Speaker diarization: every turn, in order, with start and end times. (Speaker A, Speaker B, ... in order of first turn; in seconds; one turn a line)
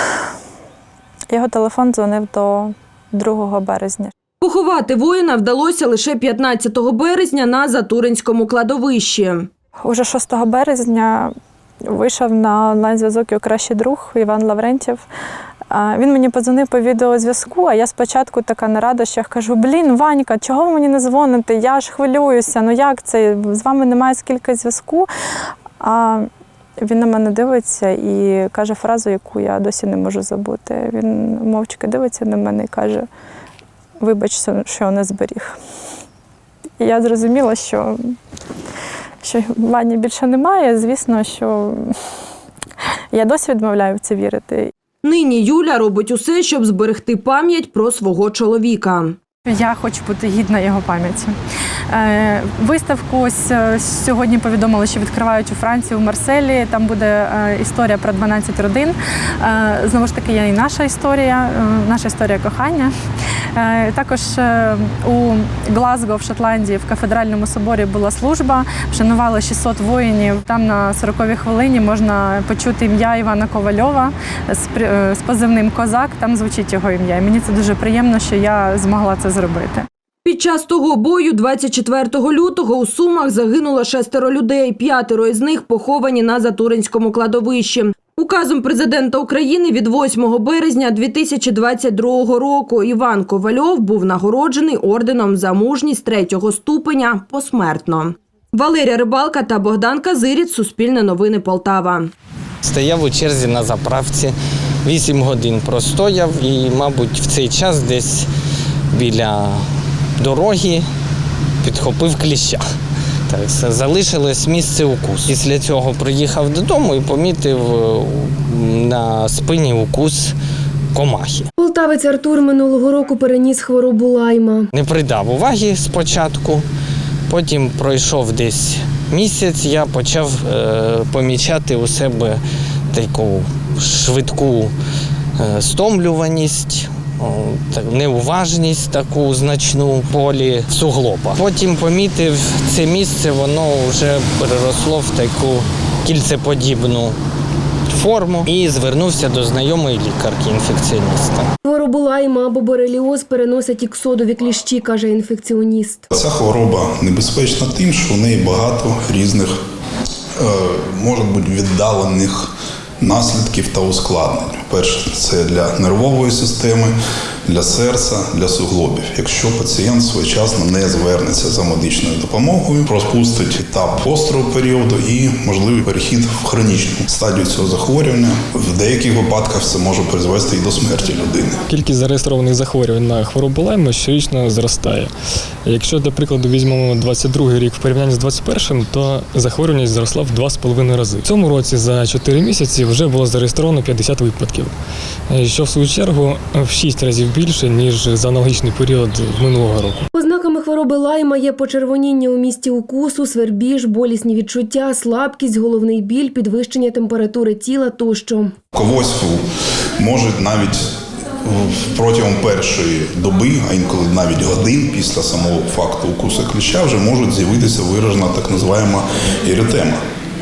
Speaker A: 1.3-4.1
Speaker B: 4.4-9.5
Speaker A: 9.8-11.3
Speaker A: 11.9-15.0
Speaker A: 15.7-25.1
Speaker A: 25.8-26.3
Speaker A: 26.8-33.1
Speaker A: 34.0-35.6
Speaker A: 36.8-38.1
Speaker A: 39.2-42.0
Speaker A: 43.1-44.7
Speaker B: 45.0-49.1
Speaker A: 49.5-51.3
Speaker A: 51.9-62.9
Speaker A: 63.6-79.9
Speaker B: 80.2-102.1
Speaker C: 102.6-108.3
Speaker C: 108.9-109.6
Speaker C: 110.2-110.9
Speaker C: 111.6-112.6
Speaker C: 113.3-120.3
Speaker C: 120.9-121.5
Speaker D: 121.6-124.7
Speaker C: 124.7-126.7
Speaker C: 127.3-132.4
Speaker C: 132.9-134.7
Speaker C: 135.4-147.2
Speaker C: 147.9-151.5
Speaker D: 151.6-156.1
Speaker E: 156.1-159.6
Speaker E: 160.4-162.5
Speaker E: 163.0-166.9
Speaker E: 167.5-181.6
Speaker F: 181.7-185.1
Speaker F: 185.7-194.7
Speaker F: 195.3-200.0
Speaker D: 200.1-208.6
Speaker E: 208.7-209.4
Speaker E: 210.0-210.8
Speaker E: 211.5-220.0